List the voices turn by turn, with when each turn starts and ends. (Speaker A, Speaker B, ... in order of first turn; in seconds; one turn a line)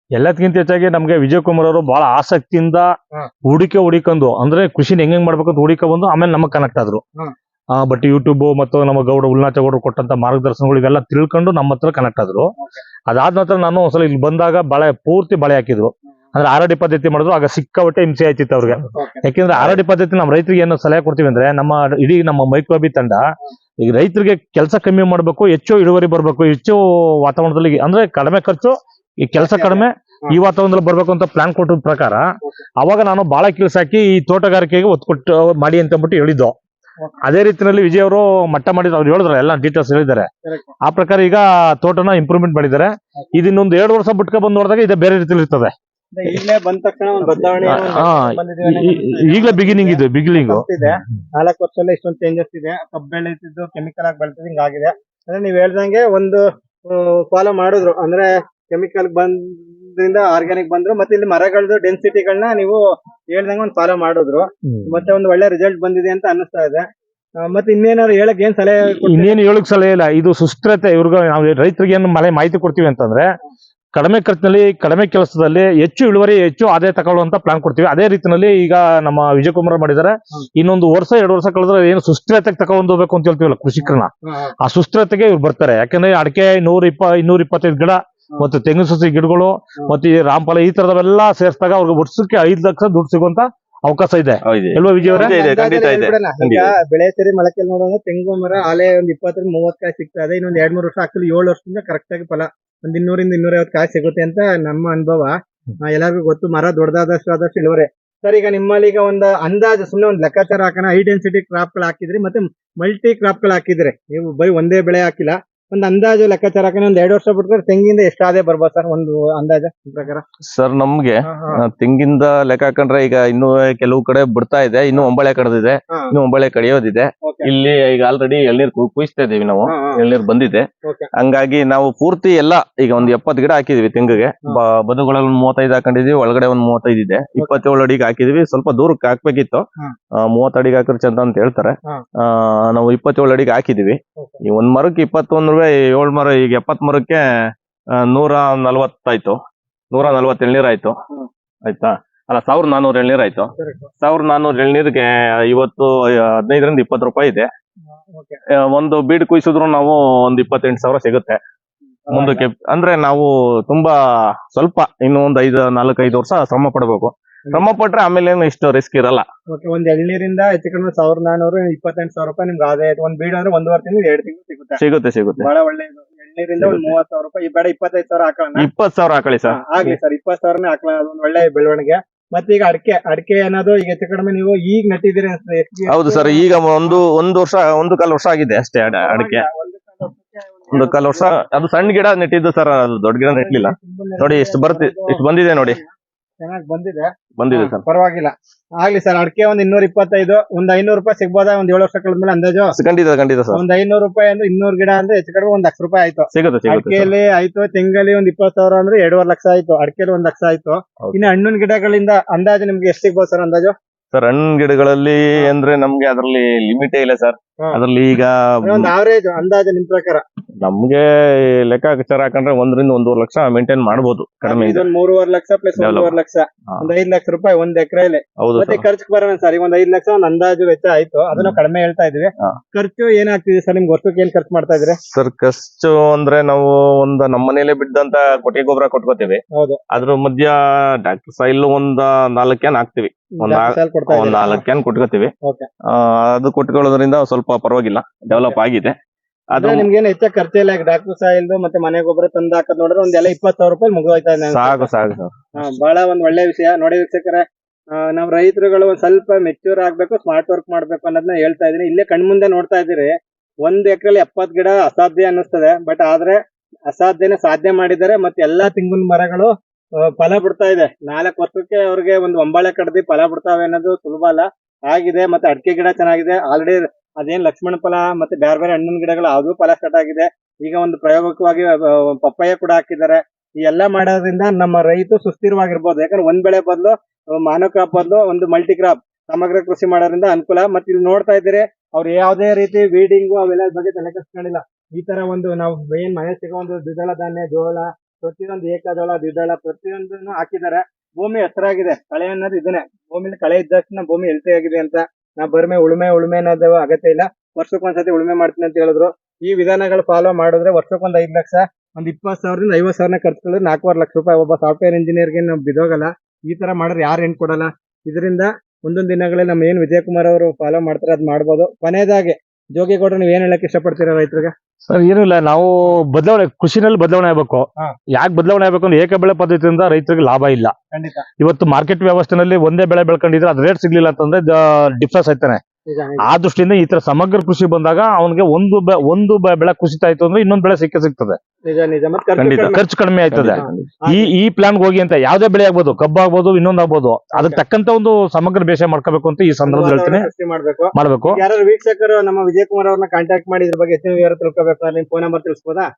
Speaker A: 0.2-2.9
Speaker A: 3.5-7.0
Speaker A: 7.8-12.5
Speaker A: 13.1-23.2
Speaker B: 18.9-19.2
Speaker A: 23.8-32.2
Speaker B: 29.4-30.4
Speaker A: 32.8-36.5
Speaker A: 37.2-40.3
Speaker B: 40.4-40.7
Speaker A: 40.8-45.7
Speaker B: 46.1-62.8
Speaker A: 47.6-51.2
Speaker C: 47.6-48.0
Speaker B: 63.3-66.8
Speaker A: 64.7-65.1
Speaker B: 67.4-69.4
Speaker A: 69.0-73.2
Speaker A: 74.0-84.1
Speaker B: 83.8-84.5
Speaker A: 84.6-95.3
Speaker C: 94.5-96.7
Speaker B: 95.0-120.2
Speaker C: 120.5-139.7
Speaker B: 121.2-121.6
Speaker B: 127.2-127.5
Speaker B: 129.7-130.0
Speaker B: 130.8-131.1
Speaker C: 140.2-147.3
Speaker C: 147.9-149.4
Speaker C: 149.9-151.0
Speaker C: 151.7-157.5
Speaker B: 153.6-153.9
Speaker B: 158.0-158.4
Speaker C: 158.6-161.4
Speaker B: 162.1-162.4
Speaker C: 162.1-164.0
Speaker C: 164.5-169.2
Speaker B: 169.5-174.8
Speaker C: 174.8-175.5
Speaker B: 175.4-178.7
Speaker C: 176.6-176.9
Speaker C: 178.6-180.0
Speaker B: 179.5-187.0
Speaker C: 185.9-189.5
Speaker B: 188.9-191.7
Speaker C: 190.7-195.8
Speaker B: 193.3-195.9
Speaker B: 196.4-202.8
Speaker C: 197.4-197.8
Speaker C: 202.8-203.6
Speaker B: 203.5-213.8
Speaker C: 206.3-207.1
Speaker C: 211.0-211.3
Speaker C: 214.1-218.9
Speaker B: 218.6-220.2
Speaker C: 220.6-224.8
Speaker B: 224.4-235.0
Speaker C: 225.8-226.2
Speaker C: 228.4-228.8
Speaker C: 235.1-245.3
Speaker B: 239.5-239.8
Speaker B: 243.4-244.6
Speaker C: 245.9-249.0
Speaker B: 248.3-248.6
Speaker C: 249.5-249.9
Speaker B: 249.6-254.9
Speaker C: 254.4-255.8
Speaker B: 255.6-269.5
Speaker B: 270.1-324.5
Speaker A: 324.9-330.7
Speaker B: 330.9-331.3
Speaker A: 331.4-335.6
Speaker B: 335.9-336.3
Speaker A: 336.2-341.4
Speaker B: 341.7-342.8
Speaker C: 342.4-342.7
Speaker A: 342.6-350.3
Speaker C: 343.3-343.9
Speaker B: 343.6-344.3
Speaker B: 347.4-347.6
Speaker B: 349.6-355.9
Speaker A: 350.9-351.4